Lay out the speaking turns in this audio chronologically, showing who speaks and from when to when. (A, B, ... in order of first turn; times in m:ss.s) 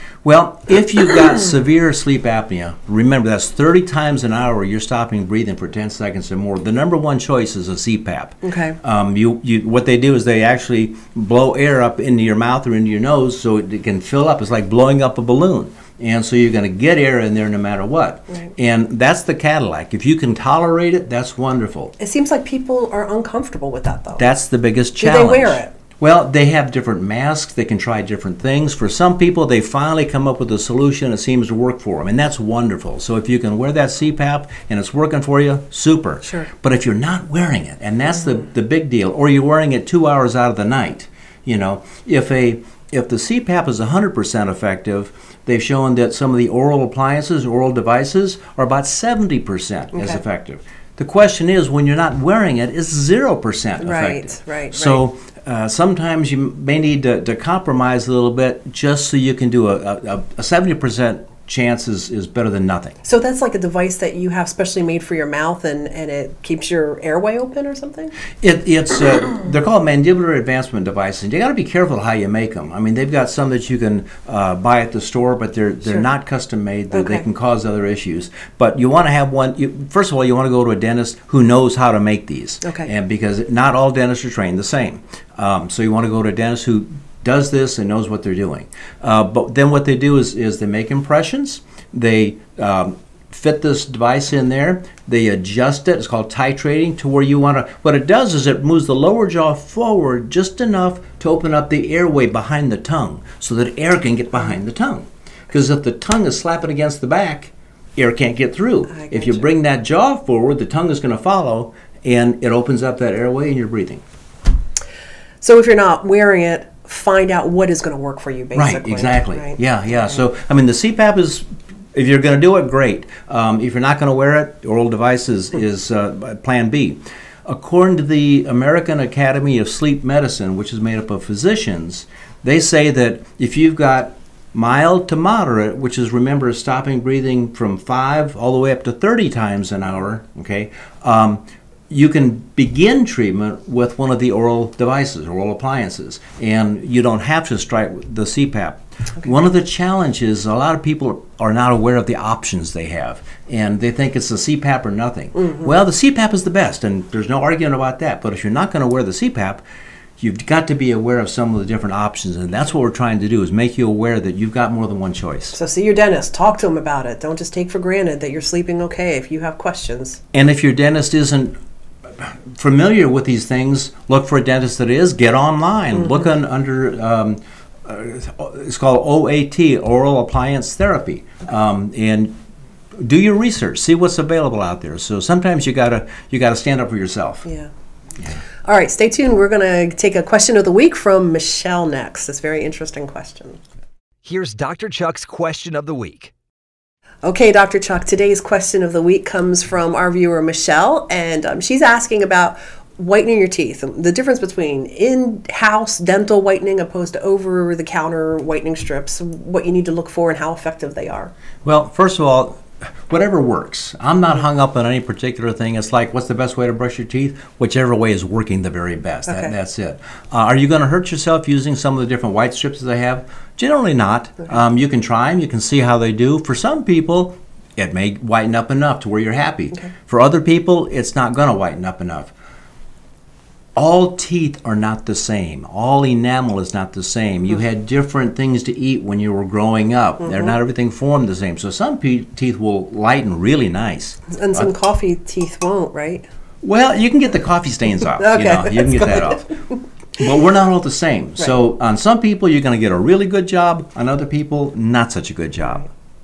0:00.2-0:21.9 A
0:08.4-0:08.8 B
0:22.0-0:24.2 B
0:24.2-1:03.0 A
0:25.0-0:25.7 B
0:49.9-0:50.2 B
0:53.8-0:55.0 B
1:03.0-1:08.1 B
1:08.4-1:54.0 A
1:16.9-1:17.2 B
1:48.9-1:49.5 B
1:55.4-1:59.6 B
1:58.6-2:39.6 A
2:40.2-2:45.6 A
2:45.5-2:50.2 B
2:50.3-2:51.6 A
2:52.2-3:02.4 A
3:03.0-3:07.5 A
3:07.4-3:07.7 B
3:08.6-3:13.6 B
3:14.2-3:16.3 C
3:17.2-3:31.3 B
3:31.6-3:52.3 A
3:53.8-4:04.7 A
4:00.3-4:00.5 B
4:04.3-4:06.3 B
4:06.6-4:09.5 A
4:08.1-4:09.8 B
4:10.2-4:15.9 A